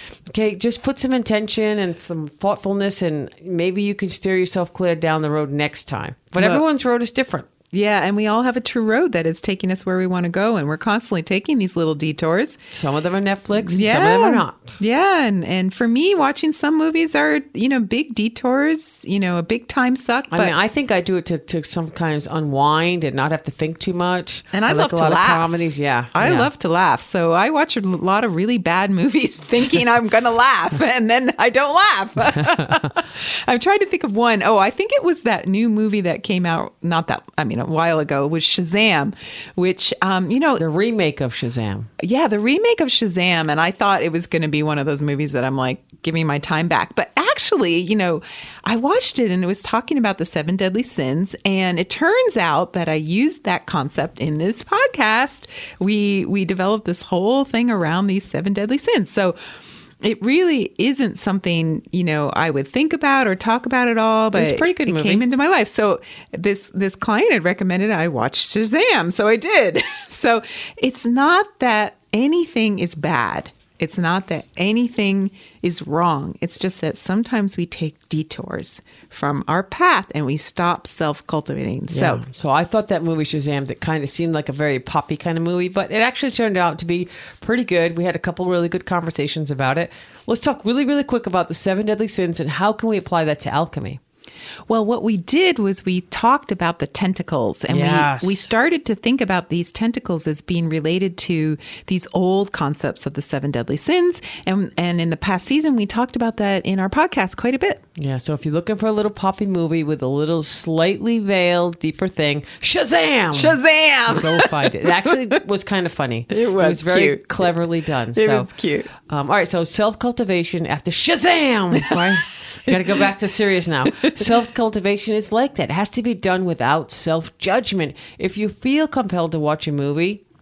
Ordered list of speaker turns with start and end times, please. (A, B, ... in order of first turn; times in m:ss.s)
0:00.3-0:07.5 A
0:06.4-0:06.6 B
0:07.7-0:12.6 B
0:12.7-0:14.8 A
0:13.6-0:20.5 B
0:20.3-0:26.5 A
0:24.5-0:40.6 B
0:32.4-0:32.9 A
0:40.6-0:41.9 A
0:42.0-0:59.4 B
1:00.0-1:22.2 B
1:04.3-1:05.2 A
1:21.9-1:34.0 A
1:34.7-1:47.8 B
1:37.7-1:38.5 A
1:48.0-2:10.2 A
1:53.3-1:55.4 B
1:56.3-1:57.5 B
1:58.2-1:58.9 B
2:01.8-2:02.1 B
2:02.7-2:03.1 B
2:03.9-2:04.3 B